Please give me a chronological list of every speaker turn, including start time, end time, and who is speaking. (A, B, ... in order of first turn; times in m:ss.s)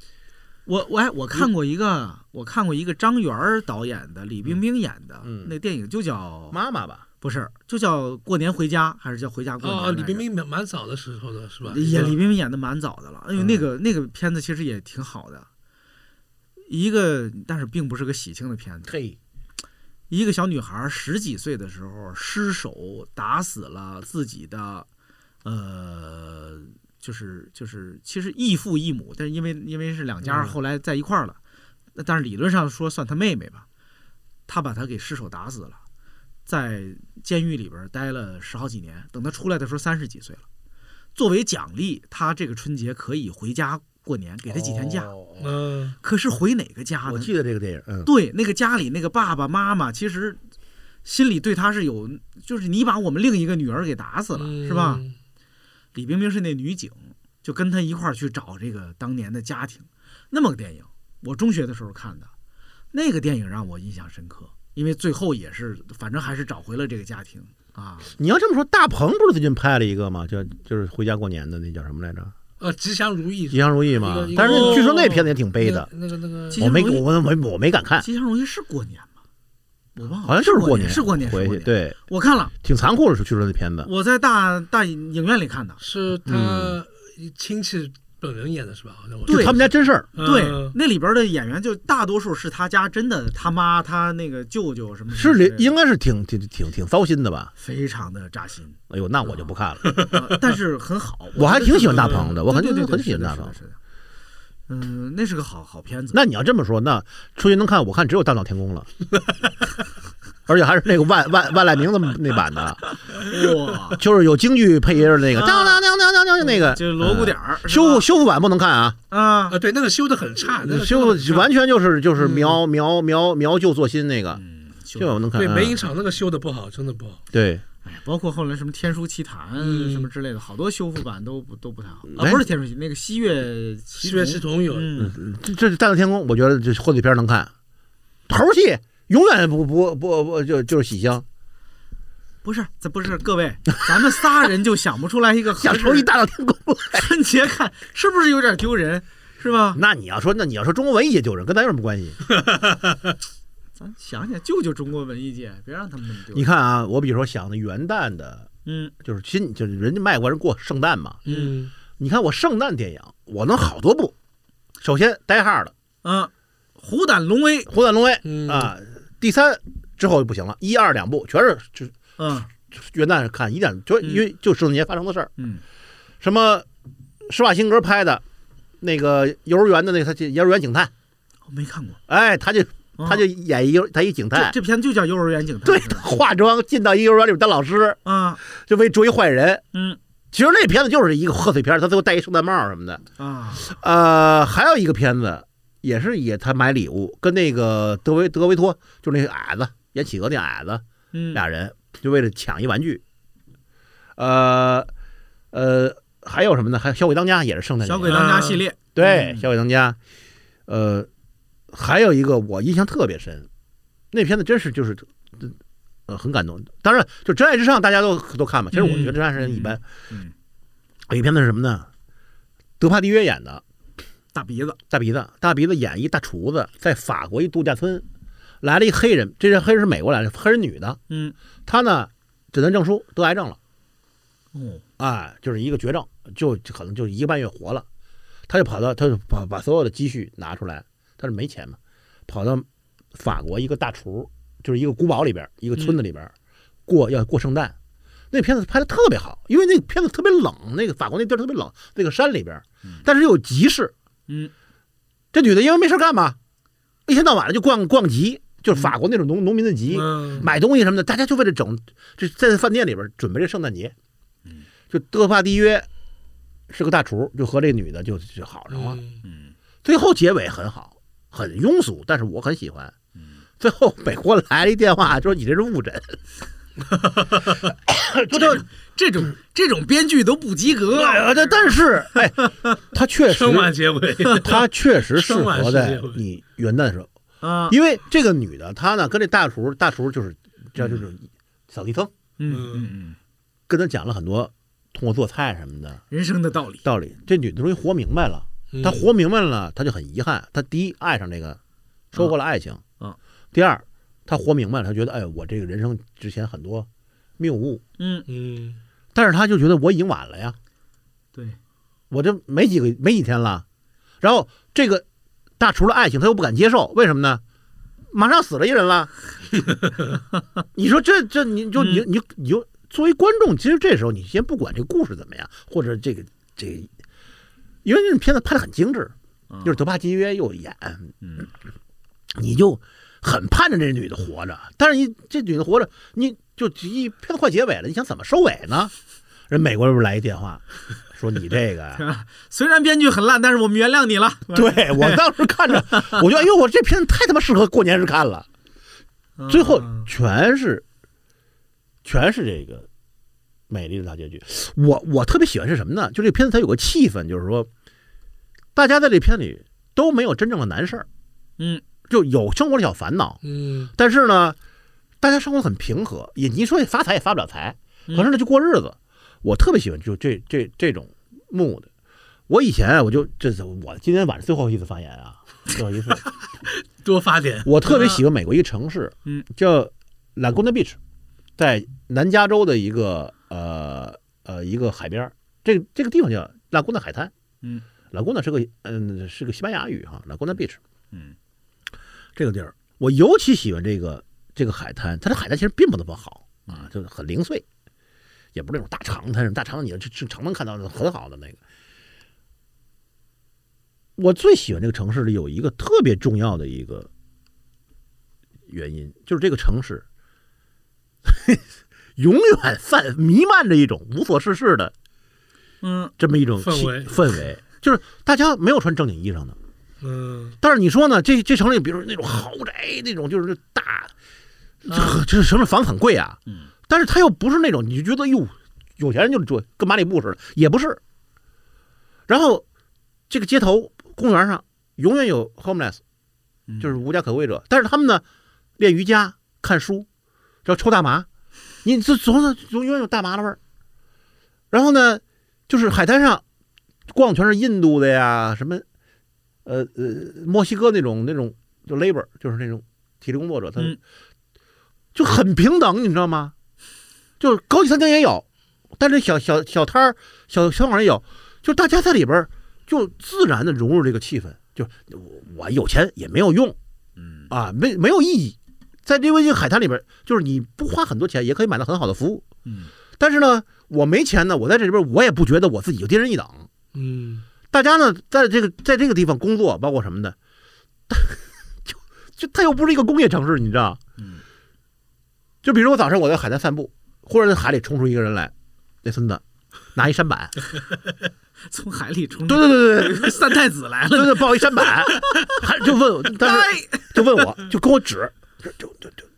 0:00.7-0:06.6 A
0:05.2-0:05.5 B
0:06.5-0:07.0 B
0:07.2-0:10.2 A
0:09.6-0:12.2 C
0:11.7-0:15.5 A
0:13.4-0:13.6 B
0:16.7-0:18.9 A
0:18.9-0:19.2 B
0:20.1-0:24.9 A
0:25.4-0:31.4 A
0:30.2-0:30.6 C
0:32.0-0:33.7 A
0:34.5-0:35.8 A
0:36.5-0:40.4 A
0:41.2-0:45.1 A
0:44.5-0:45.5 B
0:45.4-0:46.0 C
0:46.0-0:47.3 A
0:47.0-0:48.1 B
0:48.0-0:50.4 A
0:51.0-0:55.0 A
0:54.4-0:55.2 C
0:56.0-1:02.3 A
1:02.9-1:08.1 A
1:08.2-1:12.3 B
1:12.6-1:16.7 C
1:13.5-1:15.9 B
1:14.4-1:14.8 A
1:16.5-1:17.0 A
1:16.6-1:18.1 B
1:18.0-1:19.2 A
1:20.0-1:22.5 A
1:20.2-1:22.0 B
1:22.6-1:23.9 B
1:23.8-1:25.8 A
1:25.8-1:30.8 C
1:26.2-1:26.8 B
1:29.3-1:30.1 B
1:29.3-1:29.5 A
1:30.2-1:35.7 A
1:35.1-1:37.5 B
1:37.6-1:43.8 A
1:38.9-1:40.0 B
1:39.9-1:40.2 C
1:41.4-1:43.6 B
1:44.7-1:46.2 A
1:46.1-1:48.9 B
1:50.5-1:52.8 B
1:53.1-1:54.0 A
1:54.0-1:59.0 B
1:55.3-1:55.8 A
1:56.4-1:58.1 A
1:59.1-1:59.6 A
1:59.5-2:01.5 C
2:00.6-2:04.4 B
2:02.2-2:02.6 C
2:04.4-2:05.3 A
2:05.0-2:05.8 B
2:05.4-2:07.2 C
2:07.3-2:07.6 B
2:07.8-2:15.1 A
2:09.6-2:10.1 C
2:12.1-2:12.5 B
2:14.0-2:14.9 C
2:15.0-2:17.5 B
2:18.3-2:21.3 B
2:22.4-2:26.1 A
2:25.6-2:27.1 B
2:26.9-2:29.8 A
2:29.8-2:32.2 B
2:33.8-2:36.5 A
2:36.3-2:38.5 B
2:38.7-2:38.9 A
2:39.0-2:41.2 B
2:41.3-2:41.7 C
2:41.3-2:41.5 A
2:42.0-2:44.2 B
2:44.8-2:45.7 B
2:46.0-2:47.7 A
2:47.7-2:52.0 B
2:48.2-2:48.7 C
2:52.2-2:52.5 A
2:52.7-2:55.3 B
2:56.2-2:56.7 B
2:57.3-2:58.2 B
2:58.8-3:00.9 B
3:01.5-3:02.0 A
3:02.1-3:04.6 B
3:03.0-3:03.2 A
3:04.3-3:06.1 A
3:05.6-3:09.6 B
3:08.0-3:08.4 A
3:10.3-3:13.0 B
3:13.2-3:13.7 A
3:13.6-3:23.0 B
3:21.1-3:21.4 A
3:24.2-3:24.9 B
3:25.5-3:28.3 B
3:27.8-3:29.5 A
3:28.1-3:28.6 C
3:29.0-3:30.0 B
3:30.7-3:31.1 B
3:31.7-3:33.5 B
3:34.1-3:35.5 B
3:36.1-3:39.8 B
3:38.7-3:40.3 A
3:41.1-3:41.9 B
3:42.8-3:43.6 B
3:44.3-3:44.8 A
3:44.9-3:48.1 B
3:48.6-3:51.0 B
3:51.1-3:51.4 A
3:51.7-3:53.6 B
3:54.5-3:54.8 A
3:55.0-3:57.9 B
3:58.5-4:06.3 B
4:06.9-4:07.8 B
4:08.3-4:13.9 B
4:15.3-4:16.4 B
4:17.1-4:23.9 B
4:19.9-4:20.5 C
4:24.9-4:25.9 B
4:26.7-4:29.0 B
4:28.7-4:29.2 C
4:29.2-4:29.5 A
4:29.8-4:32.9 B
4:33.6-4:36.2 B
4:37.7-4:38.6 B
4:38.3-4:41.3 A
4:40.9-4:43.8 B
4:42.2-4:42.5 A
4:43.3-4:46.2 C
4:44.3-4:47.1 B
4:47.4-4:47.8 A
4:47.7-4:52.1 B
4:52.4-4:53.2 A
4:52.5-4:52.9 C
4:53.7-4:56.0 B
4:56.1-4:56.8 A
4:56.8-5:01.6 B
4:58.7-4:59.1 C
5:02.1-5:02.8 B
5:03.5-5:06.9 B
5:07.4-5:07.8 B
5:08.0-5:08.3 A
5:08.3-5:08.8 C
5:09.1-5:10.6 B
5:12.1-5:13.6 B
5:14.2-5:15.0 B
5:15.6-5:17.4 B
5:18.1-5:19.1 B
5:20.8-5:26.9 B
5:21.8-5:22.0 A
5:27.8-5:31.1 B
5:29.5-5:29.8 A
5:31.2-5:31.5 A
5:32.4-5:38.9 B
5:39.5-5:42.0 B
5:42.0-5:45.2 A
5:44.5-5:48.5 B
5:45.9-5:46.2 A
5:49.4-5:50.1 A
5:49.5-5:50.8 B
5:52.0-5:52.9 B
5:53.7-5:57.7 B
5:58.8-6:01.1 B
6:02.1-6:03.4 B
6:03.4-6:03.9 C
6:04.0-6:04.6 B
6:05.2-6:11.9 B
6:12.5-6:16.2 B
6:16.7-6:17.7 C
6:17.6-6:21.0 B
6:17.9-6:18.2 A
6:21.6-6:27.3 B
6:28.1-6:30.8 B
6:32.4-6:37.6 B
6:38.6-6:41.6 B
6:44.2-6:47.1 B
6:48.7-6:50.0 B
6:51.3-6:51.6 B
6:52.2-6:54.9 B
6:55.8-6:56.1 A
6:56.2-6:59.6 B
6:56.6-6:57.3 C
7:00.0-7:00.6 C
7:00.6-7:04.1 B
7:04.8-7:11.0 B
7:04.9-7:05.2 A
7:12.3-7:12.6 B
7:13.3-7:16.0 B
7:16.7-7:17.0 A
7:16.8-7:18.2 B
7:18.8-7:20.1 B
7:20.6-7:21.3 B
7:21.8-7:23.6 B
7:24.7-7:26.4 B
7:27.1-7:28.8 B
7:29.6-7:34.0 B
7:35.1-7:36.5 B
7:37.4-7:38.5 B
7:39.0-7:46.8 B
7:47.2-7:47.5 A
7:47.5-7:52.5 B
7:52.7-7:52.9 A
7:53.2-7:56.7 B
7:56.9-7:57.4 C
7:57.7-8:00.4 B
8:01.1-8:04.0 B
8:05.6-8:08.5 B
8:09.0-8:09.4 B
8:09.9-8:10.5 B
8:11.7-8:15.6 A
8:12.5-8:13.6 B
8:14.1-8:19.2 B
8:16.3-8:17.4 A